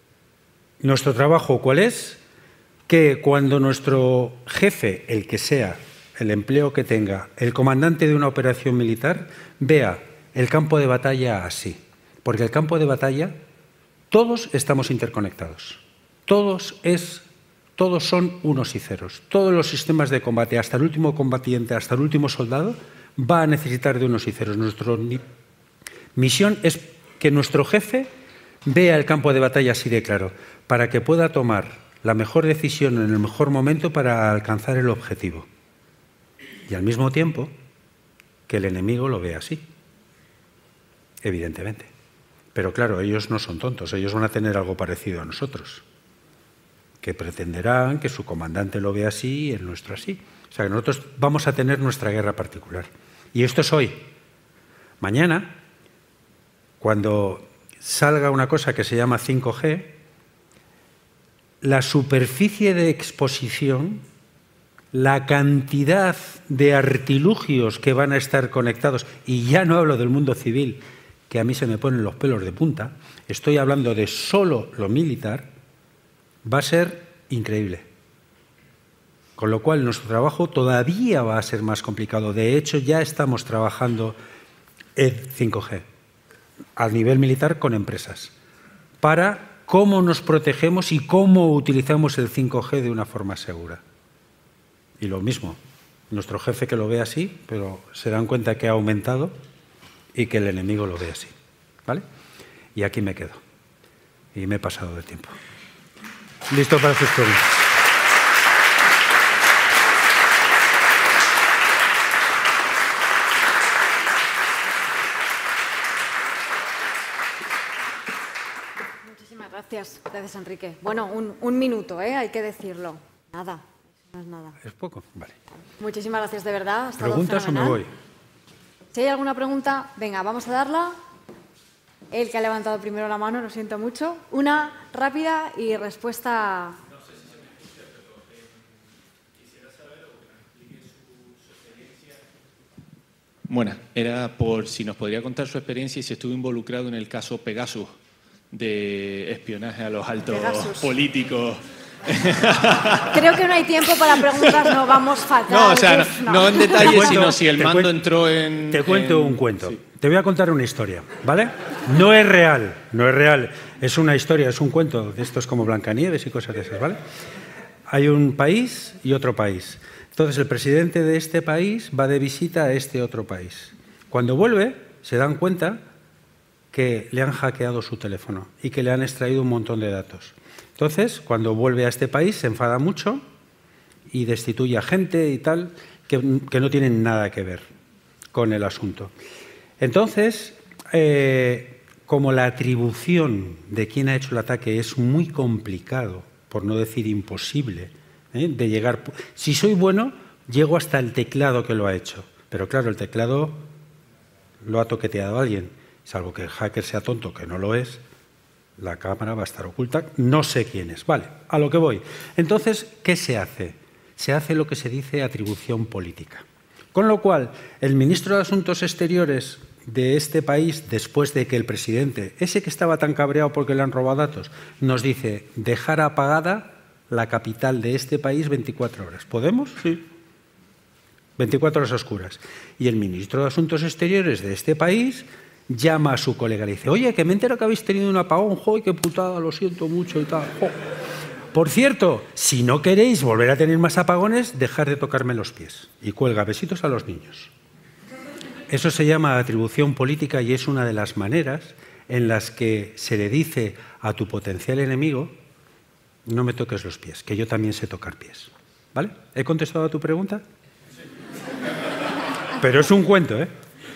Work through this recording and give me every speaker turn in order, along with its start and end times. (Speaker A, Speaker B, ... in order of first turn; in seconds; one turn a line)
Speaker A: 0.8-2.2
Speaker A: 2.9-13.3
Speaker A: 14.1-17.2
Speaker A: 17.8-25.2
Speaker A: 26.1-28.1
Speaker A: 28.6-35.5
Speaker A: 36.7-37.5
Speaker A: 38.5-39.7
Speaker A: 41.2-41.9
Speaker A: 42.5-45.8
Speaker A: 47.0-54.0
Speaker A: 55.0-55.6
Speaker A: 56.8-60.0
Speaker A: 61.6-64.0
Speaker A: 64.9-75.5
Speaker A: 76.4-77.8
Speaker A: 79.4-84.2
Speaker A: 85.0-85.8
Speaker A: 86.8-88.3
Speaker A: 89.0-93.8
Speaker A: 95.0-95.6
Speaker A: 96.1-99.4
Speaker A: 100.1-101.3
Speaker A: 102.7-103.4
Speaker A: 104.3-105.3
Speaker A: 106.5-107.5
Speaker B: 119.0-124.6
Speaker A: 124.6-125.3
Speaker B: 125.8-127.8
Speaker A: 127.0-127.9
Speaker B: 128.9-131.0
Speaker B: 132.1-136.8
Speaker C: 143.5-147.9
Speaker C: 148.5-153.3
Speaker B: 150.3-150.9
Speaker B: 153.1-157.3
Speaker C: 154.0-154.8
Speaker C: 155.5-159.5
Speaker A: 156.7-158.0
Speaker A: 158.7-167.0
Speaker A: 167.9-175.8
Speaker A: 176.7-183.2
Speaker A: 184.1-187.7
Speaker A: 188.3-189.1
Speaker A: 189.8-203.7
Speaker A: 204.6-208.0
Speaker A: 208.8-230.0
Speaker A: 231.4-240.8
Speaker A: 241.5-247.5
Speaker A: 248.7-255.3
Speaker A: 256.3-260.4
Speaker A: 262.6-263.5